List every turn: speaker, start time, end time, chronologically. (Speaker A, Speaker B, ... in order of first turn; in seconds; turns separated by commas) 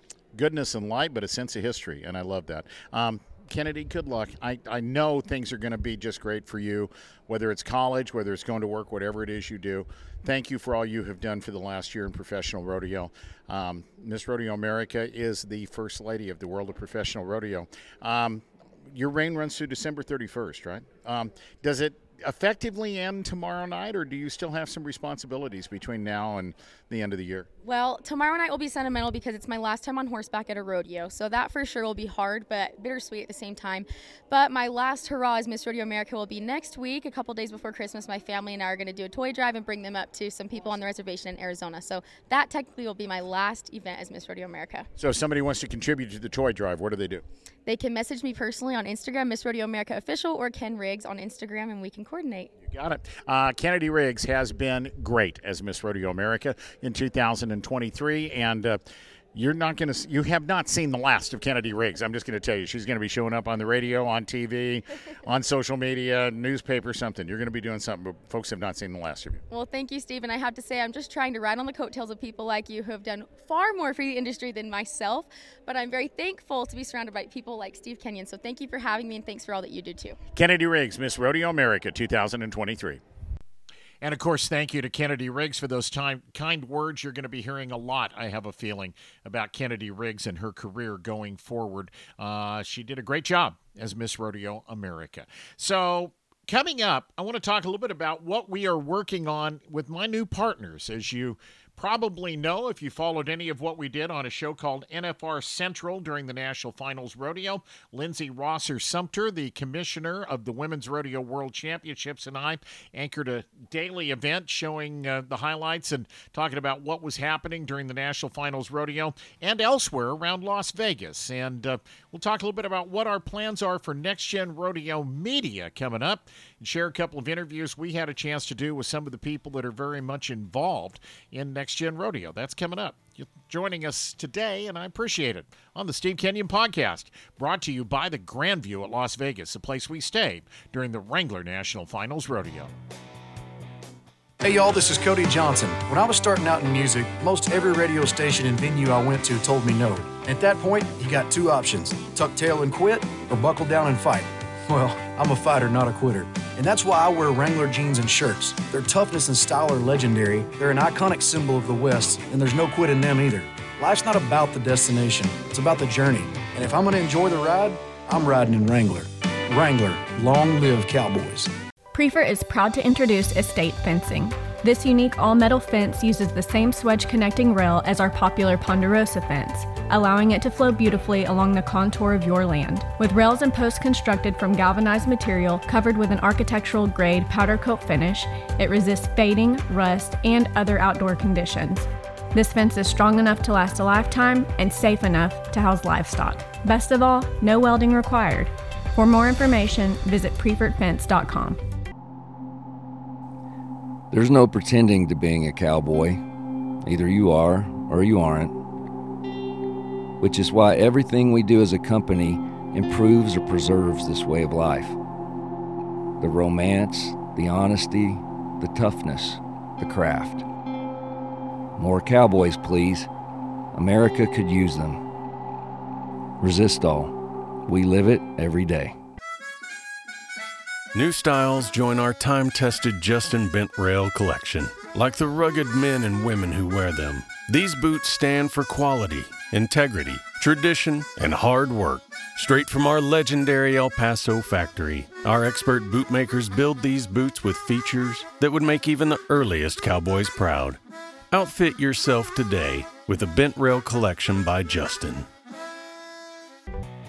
Speaker A: 0.3-27.5, Speaker B: 27.6-44.9, Speaker A: 45.0-47.2, Speaker B: 47.7-52.5, Speaker A: 52.7-58.8, Speaker A: 59.3-69.4, Speaker B: 69.5-80.2, Speaker A: 80.3-83.0, Speaker A: 84.0-142.7, Speaker C: 144.4-171.5, Speaker D: 171.9-201.6, Speaker E: 204.1-206.2, Speaker E: 206.8-208.6, Speaker E: 210.2-215.0, Speaker E: 216.2-220.5, Speaker E: 221.8-223.1, Speaker E: 223.7-225.0, Speaker E: 226.4-227.2, Speaker E: 227.7-229.0, Speaker F: 230.9-250.8, Speaker F: 251.3-255.3